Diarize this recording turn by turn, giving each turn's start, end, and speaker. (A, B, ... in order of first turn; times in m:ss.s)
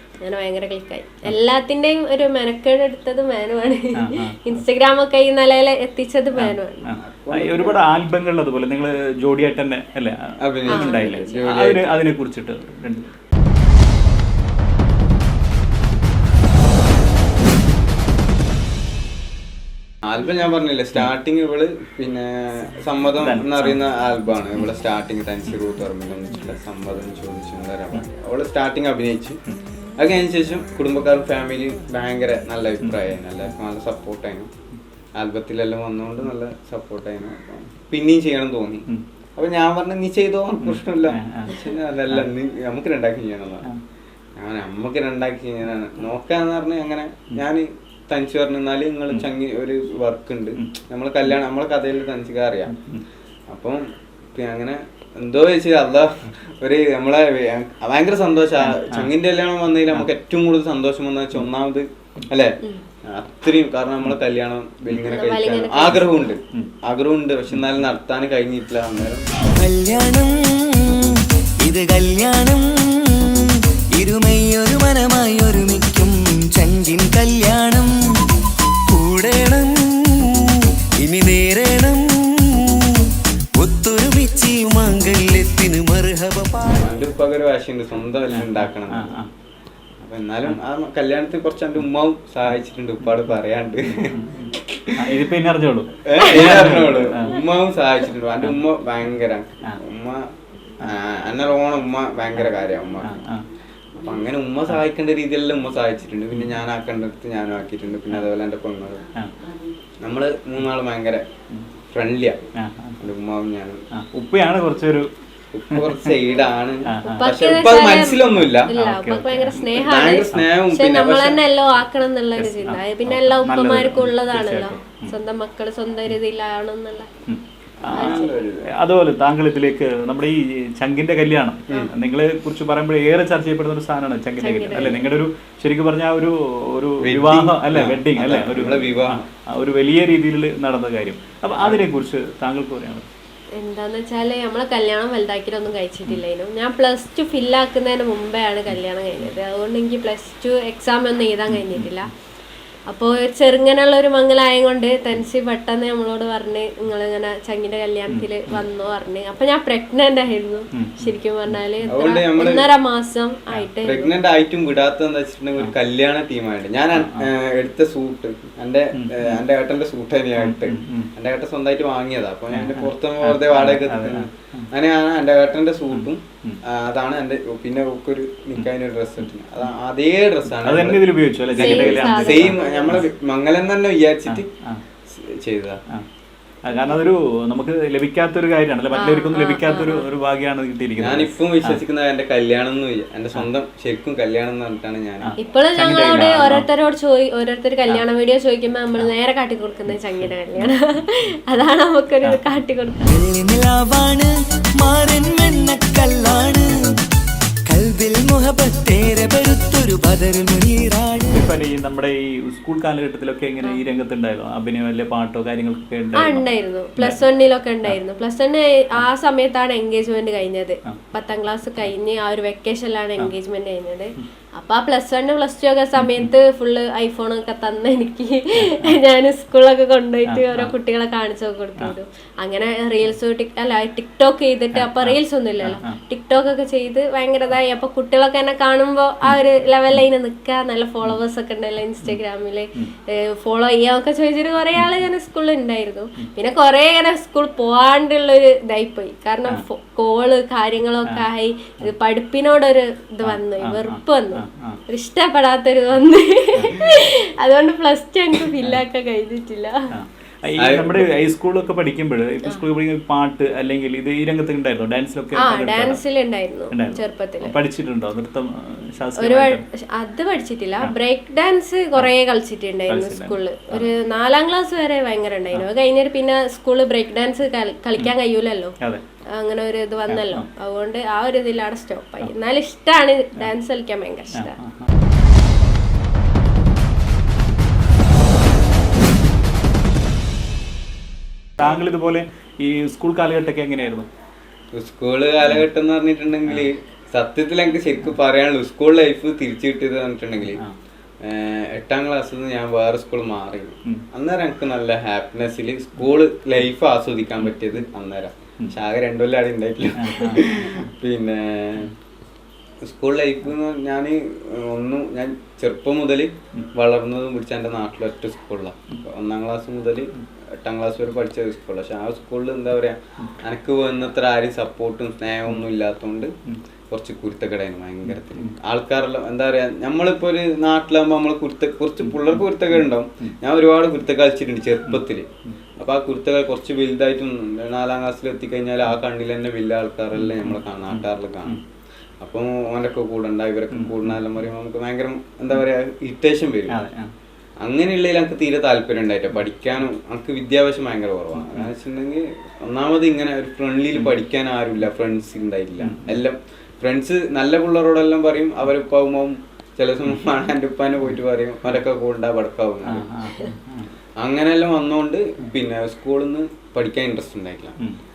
0:00.2-0:06.8 A
0:04.0-0:04.6 B
0:06.4-0:13.1 B
0:06.9-0:07.8 C
0:10.4-0:12.0 C
0:10.7-0:11.3 A
0:20.1-0:29.4 C
0:23.2-0:23.8 B
0:30.0-0:34.5 C
0:35.2-0:43.7 C
0:40.6-0:42.3 B
0:44.4-0:52.7 C
0:52.7-0:53.0 B
0:53.5-0:53.8 C
0:54.4-1:09.3 C
0:58.6-0:59.1 B
1:05.0-1:06.0 A
1:09.6-1:18.3 D
1:18.9-1:27.0 D
1:26.8-1:29.2 C
1:28.3-1:29.3 B
1:30.0-1:35.2 C
1:33.9-1:37.4 B
1:36.0-1:40.3 C
1:40.8-1:43.2 C
1:43.0-1:43.4 B
1:44.0-1:49.0 C
1:50.0-1:51.2 C
1:51.9-1:52.4 C
1:52.6-1:53.0 B
1:53.0-1:53.8 C
1:54.0-1:55.1 B
1:55.5-1:58.7 C
1:55.7-1:56.2 B
1:56.9-1:57.7 B
1:57.0-2:07.1 A
1:58.4-1:59.6 B
1:59.5-2:01.4 C
2:02.4-2:05.1 B
2:07.3-2:23.1 B
2:07.8-2:08.7 C
2:07.9-2:08.3 A
2:14.4-2:15.0 A
2:17.0-2:19.2 C
2:21.6-2:21.9 C
2:23.6-2:32.1 A
2:28.7-2:29.3 B
2:31.5-2:32.0 B
2:32.9-2:44.1 A
2:38.1-2:38.5 B
2:40.7-2:41.9 B
2:41.9-2:42.7 C
2:43.8-3:01.0 C
2:47.0-2:47.3 B
2:49.0-2:49.4 B
2:50.4-2:51.1 B
2:52.5-2:54.7 B
2:55.9-2:56.6 B
3:00.6-3:03.1 B
3:01.5-3:04.5 C
3:01.6-3:03.0 A
3:04.3-3:04.8 B
3:05.1-3:05.8 C
3:06.6-3:11.8 B
3:08.9-3:10.1 A
3:11.0-3:15.3 C
3:15.2-3:16.7 B
3:15.4-3:23.1 A
3:23.1-3:27.0 D
3:27.7-3:31.4 D
3:31.3-3:36.5 B
3:36.2-4:19.8 A
3:46.0-3:46.3 B
3:48.6-3:49.0 B
3:50.3-3:50.7 B
3:54.7-3:56.0 B
4:04.8-4:05.0 B
4:13.2-4:14.8 B
4:19.9-4:26.0 B
4:20.6-4:21.1 C
4:25.4-4:27.5 A
4:26.7-4:29.6 B
4:29.2-4:38.8 A
4:32.9-4:33.9 B
4:39.3-4:44.6 A
4:40.1-4:40.5 B
4:44.3-4:44.9 B
4:51.6-4:54.1 B
4:54.7-5:00.6 C
5:00.4-5:00.7 B
5:01.2-5:11.9 C
5:10.0-5:10.9 B
5:12.8-5:26.3 C
5:26.9-5:35.3 C
5:28.1-5:28.5 B
5:32.0-5:33.4 B
5:34.9-5:35.5 B
5:35.8-5:41.6 C
5:40.2-5:41.6 B
5:42.2-5:46.8 C
5:43.7-5:44.3 B
5:46.7-5:47.1 B
5:47.6-6:03.1 C
5:51.4-5:51.7 B
5:55.8-5:56.2 B
6:02.9-6:03.9 B
6:04.2-6:07.8 C